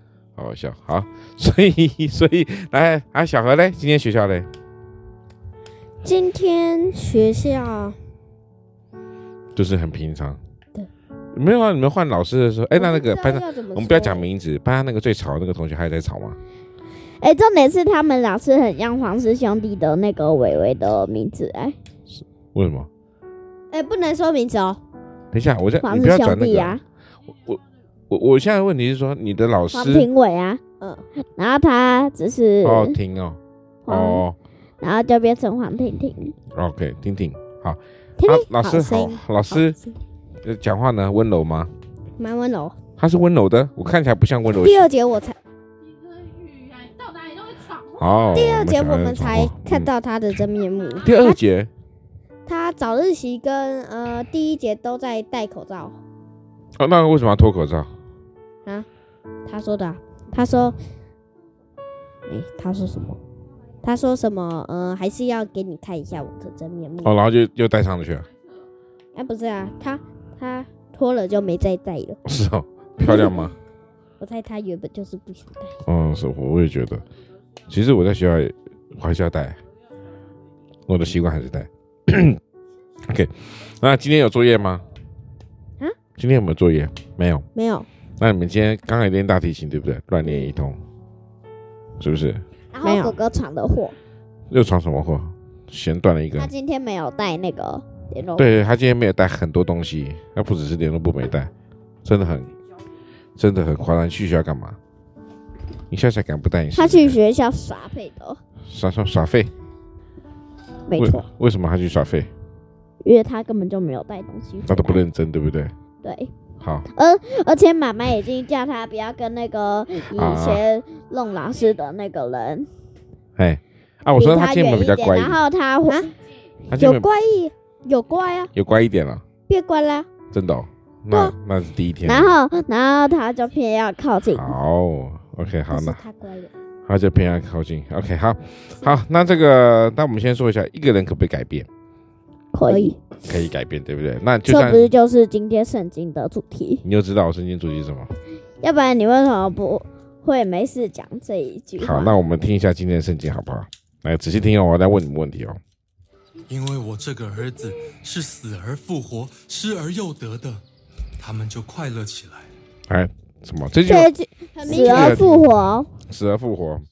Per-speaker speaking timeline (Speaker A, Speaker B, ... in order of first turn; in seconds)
Speaker A: 0.3-4.5, 9.5-10.4, 11.3-16.4, 22.1-22.9, 25.3-30.1, 32.6-34.4, 36.5-39.8, 40.4-41.7, 43.0-44.8, 47.8-49.9, 51.0-51.7, 56.8-57.9, 67.0-68.3, 72.2-73.5, 75.8-77.0, 77.7-79.6, 80.9-82.4, 83.1-84.8, 86.2-87.5, 88.2-90.8, 92.0-92.4, 94.5-96.5, 98.4-101.5, 102.0-102.5, 103.4-104.8, 105.9-107.2, 108.7-109.5, 111.0-112.3, 114.7-115.7, 116.6-116.9, 120.2-120.6, 123.4-125.4, 126.7-127.1, 128.5-129.2, 130.3-132.3, 134.3-136.0, 136.9-141.7, 143.2-144.9, 146.8-148.1, 151.8-155.6, 162.9-164.1, 164.7-166.8
Speaker B: 6.0-8.0, 12.7-14.2, 23.7-24.8, 38.2-39.9, 42.2-42.8, 44.6-45.4, 48.3-51.4, 52.5-56.0, 59.4-60.8, 62.3-63.2, 63.8-67.1, 69.1-72.2, 73.0-73.3, 74.2-75.8, 87.5-87.9, 92.8-93.2, 126.7-128.5, 129.5-130.1, 135.7-136.5, 142.7-142.9, 163.8-165.2
Speaker C: 17.2-21.8, 25.8-26.8, 29.7-30.6, 31.3-33.0, 33.9-34.2, 34.8-36.4, 92.7-93.9, 96.3-98.4, 106.8-108.4, 110.9-111.3, 113.0-115.0, 116.0-116.3, 116.9-122.7, 124.1-126.1, 132.1-134.5, 142.5-143.0, 144.4-146.8, 148.6-152.2, 164.6-165.9
Speaker D: 156.8-158.2, 159.0-159.9